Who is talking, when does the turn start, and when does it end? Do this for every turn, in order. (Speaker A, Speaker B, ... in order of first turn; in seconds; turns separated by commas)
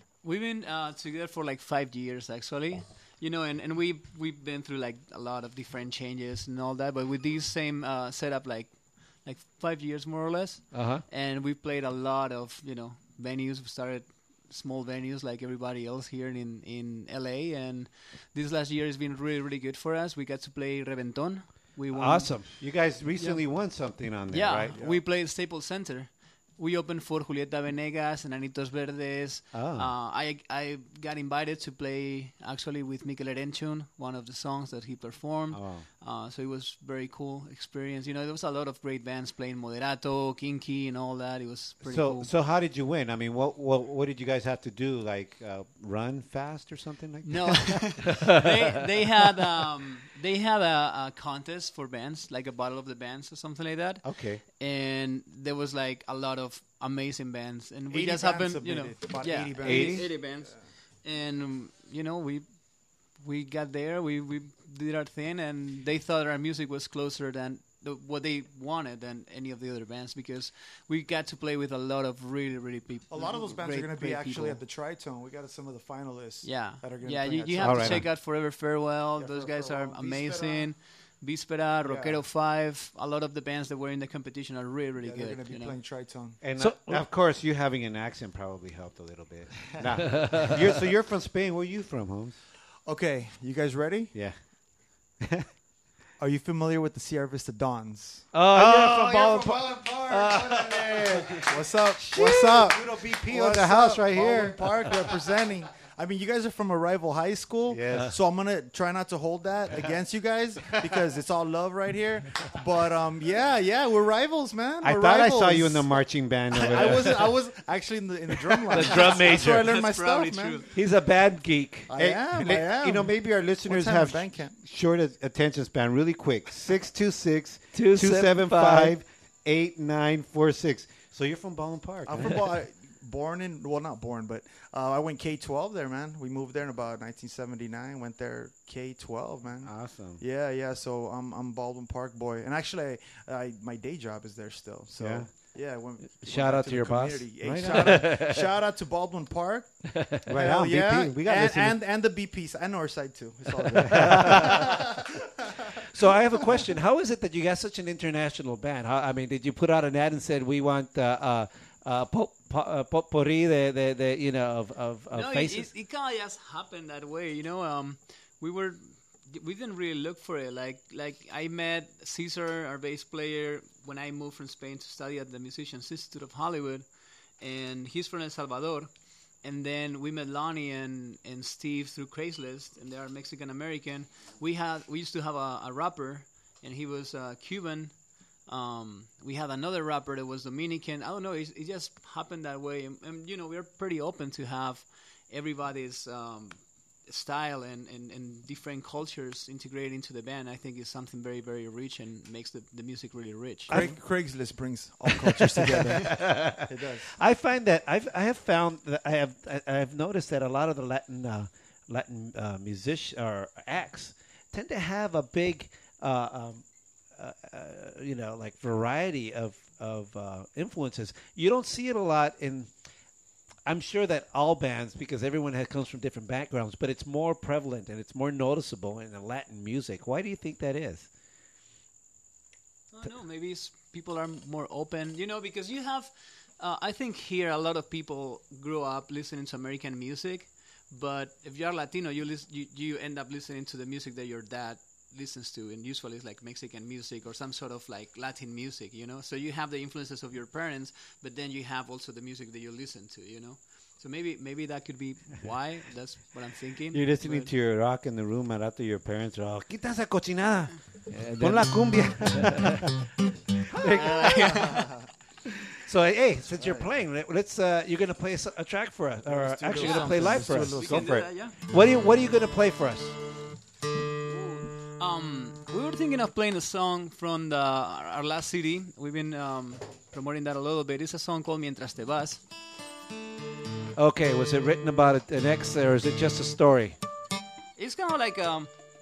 Speaker A: 0.2-22.6, Speaker B: 10.7-11.0, Speaker B: 21.9-22.5, Speaker C: 22.6-24.8, Speaker A: 23.1-23.4, Speaker A: 24.3-42.3, Speaker D: 24.8-25.0, Speaker C: 29.5-29.9, Speaker C: 35.5-35.9, Speaker C: 41.8-47.8, Speaker A: 47.2-54.0, Speaker C: 54.0-54.4, Speaker A: 54.6-62.5, Speaker D: 57.9-60.1, Speaker C: 59.6-60.1, Speaker A: 63.1-74.6, Speaker D: 73.1-78.0, Speaker A: 76.4-85.8, Speaker C: 77.6-78.1, Speaker D: 79.2-80.7, Speaker D: 81.8-82.2, Speaker D: 85.0-86.4, Speaker C: 86.4-92.4, Speaker B: 86.6-87.0, Speaker B: 90.0-90.5, Speaker D: 92.8-94.1, Speaker C: 95.2-95.5, Speaker D: 96.2-98.3, Speaker B: 98.3-101.5, Speaker C: 98.5-105.1, Speaker D: 101.5-120.6, Speaker C: 107.7-108.1, Speaker C: 114.8-117.3, Speaker B: 116.6-117.3, Speaker B: 118.7-119.8, Speaker A: 119.0-120.7, Speaker B: 120.7-121.9, Speaker D: 121.9-124.6, Speaker C: 121.9-132.5, Speaker B: 127.7-129.0, Speaker D: 132.0-149.8, Speaker C: 139.6-140.2, Speaker C: 144.9-145.3, Speaker B: 146.2-148.5, Speaker B: 149.9-150.2, Speaker C: 150.3-151.8, Speaker D: 150.3-154.9, Speaker B: 153.7-154.7, Speaker C: 153.7-154.7, Speaker B: 155.9-165.7, Speaker A: 165.1-176.8, Speaker A: 177.4-178.9, Speaker A: 179.4-187.9, Speaker A: 188.4-203.8, Speaker D: 203.7-207.1, Speaker B: 205.7-216.6, Speaker B: 217.2-222.7, Speaker B: 223.7-231.1, Speaker A: 232.9-257.5, Speaker C: 256.9-260.7, Speaker B: 261.1-262.8, Speaker C: 261.4-263.1, Speaker C: 263.7-264.3, Speaker B: 263.8-264.6, Speaker A: 263.9-264.9, Speaker D: 264.1-264.9, Speaker B: 265.8-271.0, Speaker D: 266.6-266.8, Speaker D: 269.2-271.2, Speaker A: 269.7-271.6, Speaker C: 270.5-271.3, Speaker B: 271.6-273.1, Speaker A: 274.3-282.4, Speaker B: 284.0-287.0, Speaker A: 287.8-288.7